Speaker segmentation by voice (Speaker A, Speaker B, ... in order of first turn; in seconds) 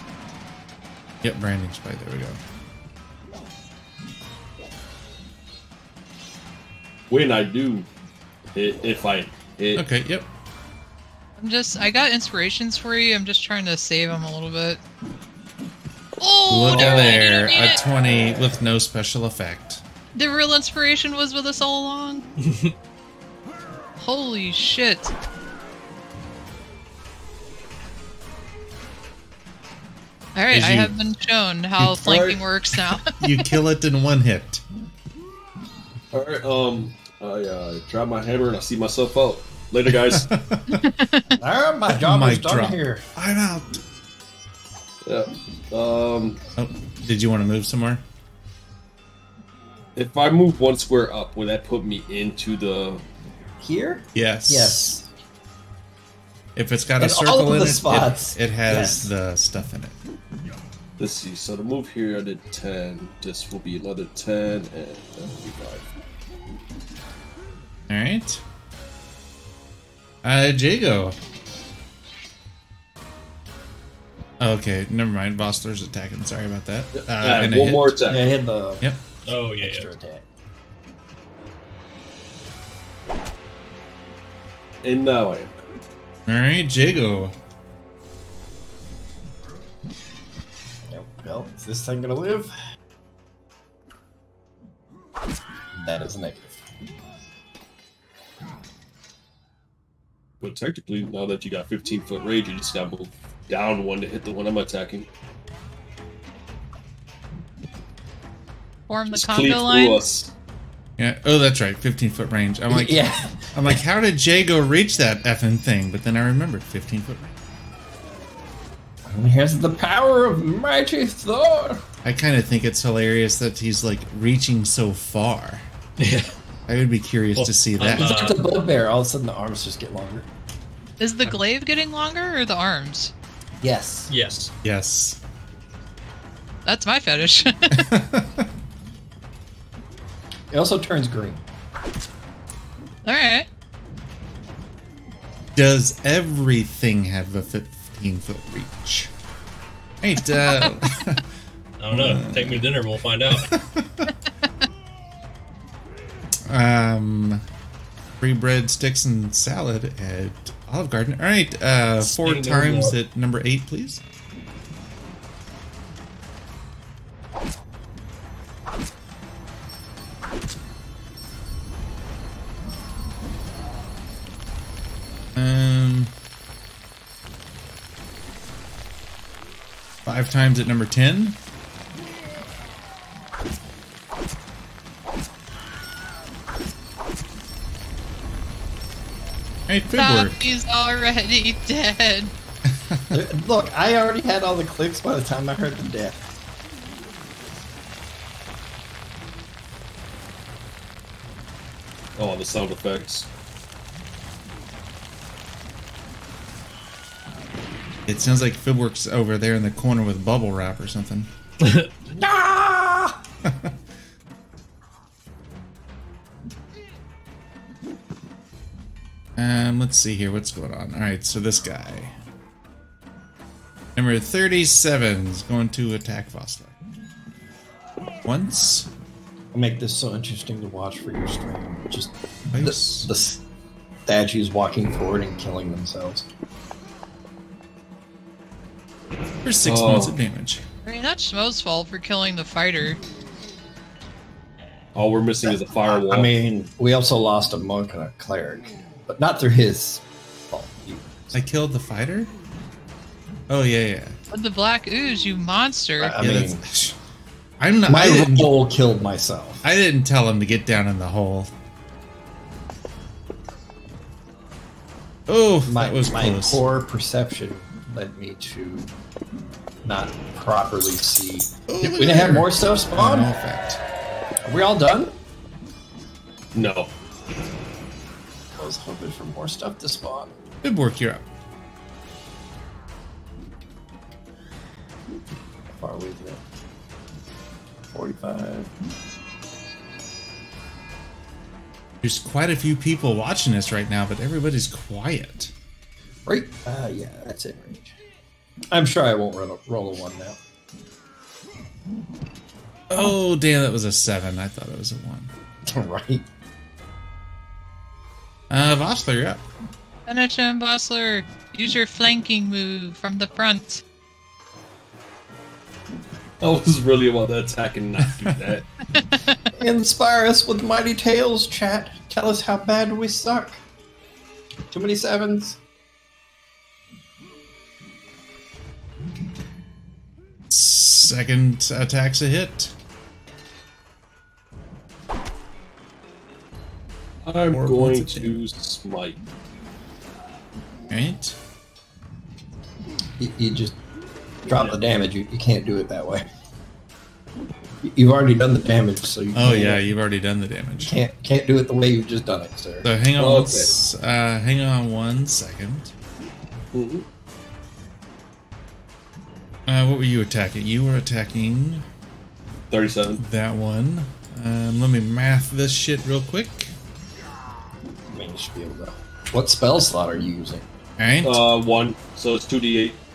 Speaker A: 1.2-2.4, 9.7-10.3, 16.5-19.8, 30.5-30.9, 32.9-34.6, 39.9-40.9, 42.0-43.8, 46.6-48.0, 54.1-55.0, 56.5-60.0, 67.9-68.4, 70.2-71.2, 74.4-78.0, 86.3-87.3, 111.0-117.3, 122.0-125.7, 126.7-128.3, 134.6-135.2, 137.7-138.5, 145.5-149.1, 150.0-151.3, 151.9-152.7, 153.3-154.1, 156.5-157.4, 158.2-164.0, 175.3-176.1, 180.0-181.4, 189.7-190.4, 192.7-193.2, 208.1-211.3, 213.4-213.7, 219.4-222.1, 223.9-226.8, 228.2-228.9, 232.5-233.1, 239.4-240.6, 251.3-252.3, 253.5-254.2, 256.2-256.9, 257.6-258.5, 259.6-261.5, 265.3-266.6, 271.7-273.8, 280.6-281.2, 292.0-295.5, 302.9-305.3, 308.5-309.4, 330.5-332.7, 337.5-338.4, 340.9-341.4, 349.3-350.9, 352.8-355.9, 359.7-361.9, 363.2-366.7, 371.0-371.4
Speaker B: 7.1-7.9, 8.5-9.8, 16.7-17.2, 32.0-32.4, 36.1-40.3, 45.0-46.4, 49.9-53.0, 61.0-65.8, 76.9-78.3, 84.8-85.6, 100.4-105.1, 109.0-110.3, 202.2-203.3, 239.6-240.2, 244.9-246.3, 276.5-276.9, 316.4-318.7, 337.2-339.2, 353.2-353.7, 356.7-357.1, 362.7-363.2, 371.2-373.0
Speaker C: 11.4-14.8, 16.2-17.8, 20.1-22.2, 24.0-25.1, 30.3-33.6, 40.7-41.3, 108.9-110.0, 131.0-133.1, 136.7-137.9, 143.0-143.5, 150.3-150.7, 189.9-192.3, 240.8-243.0, 254.3-256.2, 310.1-313.8, 318.9-319.4
Speaker D: 22.4-22.7, 79.2-79.9, 126.0-126.3, 127.4-128.4, 134.1-134.5, 151.8-153.5, 162.0-162.9, 211.6-211.9
Speaker E: 41.4-43.0, 53.6-55.1, 57.0-59.1, 78.0-80.2, 90.9-92.5, 95.8-96.6, 112.7-113.8, 119.0-121.8, 127.9-130.3, 133.6-134.1, 140.5-141.4, 193.1-196.3, 212.1-213.2, 229.5-233.4, 234.1-236.3, 245.4-251.4, 256.0-256.6, 257.9-259.6, 265.6-268.9, 269.8-273.3, 274.4-275.1, 278.5-280.3, 285.7-286.4, 287.9-288.7, 296.2-297.9, 298.7-300.4, 305.6-306.2, 319.5-323.6, 324.7-325.6, 343.2-343.8, 344.4-346.2, 347.8-349.8, 350.8-352.9, 368.1-370.6